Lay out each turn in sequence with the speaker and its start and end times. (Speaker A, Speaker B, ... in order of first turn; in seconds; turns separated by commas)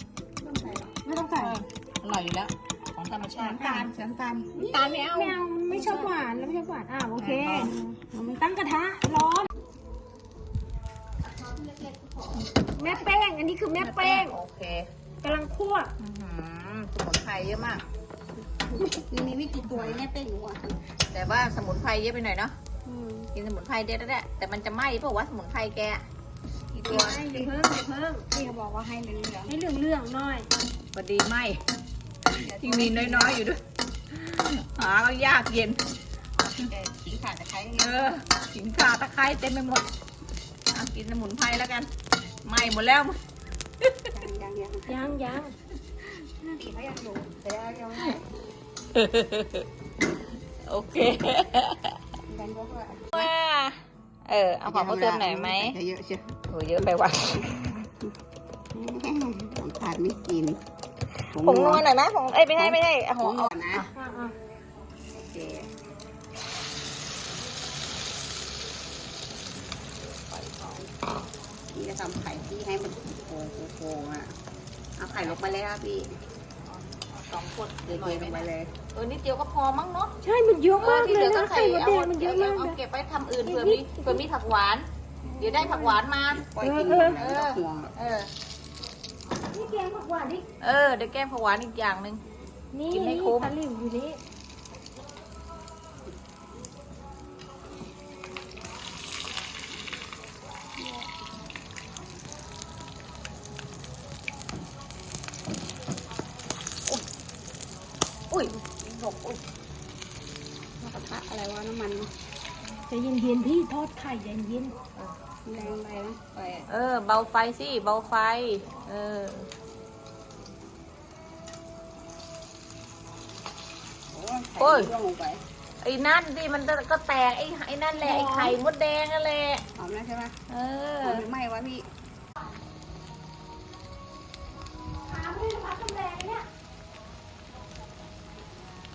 Speaker A: 0.4-1.0, Speaker B: 1.0-1.6, Speaker C: 1.3-3.9, Speaker A: 3.3-4.8, Speaker C: 4.6-6.1, Speaker B: 4.8-9.5, Speaker A: 5.8-6.0, Speaker C: 7.2-7.8, Speaker A: 11.2-13.2, Speaker B: 12.7-14.4, Speaker C: 13.8-14.9, Speaker B: 15.2-15.9, Speaker C: 16.0-17.8, Speaker A: 18.7-20.7, Speaker C: 19.7-20.1, Speaker C: 21.1-22.6, Speaker A: 22.9-23.3, Speaker C: 23.3-26.0, Speaker C: 26.8-27.2, Speaker B: 26.9-28.3, Speaker A: 26.9-27.6, Speaker A: 28.3-29.5, Speaker B: 29.5-30.5, Speaker C: 30.9-31.6, Speaker A: 32.3-33.4, Speaker C: 32.3-33.6, Speaker C: 34.1-35.8, Speaker A: 36.4-38.1, Speaker C: 37.8-39.9, Speaker C: 40.7-41.9, Speaker C: 42.4-43.2, Speaker A: 44.1-45.0, Speaker B: 44.9-45.5, Speaker A: 46.5-48.3, Speaker C: 49.0-49.7, Speaker C: 50.7-52.0, Speaker A: 52.3-53.3, Speaker C: 53.1-55.8, Speaker A: 54.6-56.4, Speaker C: 56.5-57.9, Speaker A: 58.7-60.6, Speaker A: 61.3-61.9, Speaker C: 61.3-63.9, Speaker A: 62.5-63.9, Speaker B: 63.9-64.3, Speaker A: 65.2-65.7, Speaker C: 70.3-70.9, Speaker A: 71.7-74.3, Speaker A: 75.0-76.2, Speaker C: 76.7-80.2, Speaker A: 77.9-78.8, Speaker B: 80.2-82.8, Speaker C: 80.8-84.9, Speaker B: 83.4-84.2, Speaker B: 85.4-86.0, Speaker C: 85.4-86.4, Speaker A: 86.3-88.0, Speaker B: 86.6-87.2, Speaker C: 87.2-88.3, Speaker B: 89.5-90.5, Speaker C: 90.6-92.2, Speaker B: 92.7-94.2, Speaker C: 92.9-93.5, Speaker A: 100.8-101.1, Speaker A: 108.3-109.4, Speaker A: 110.8-112.1, Speaker B: 112.9-114.8, Speaker A: 115.5-116.7, Speaker C: 116.7-119.5, Speaker A: 124.1-125.4, Speaker C: 124.6-124.9, Speaker C: 125.8-129.6, Speaker B: 127.9-128.6, Speaker A: 129.8-130.3, Speaker C: 130.5-131.3, Speaker A: 131.0-131.8, Speaker B: 135.1-136.5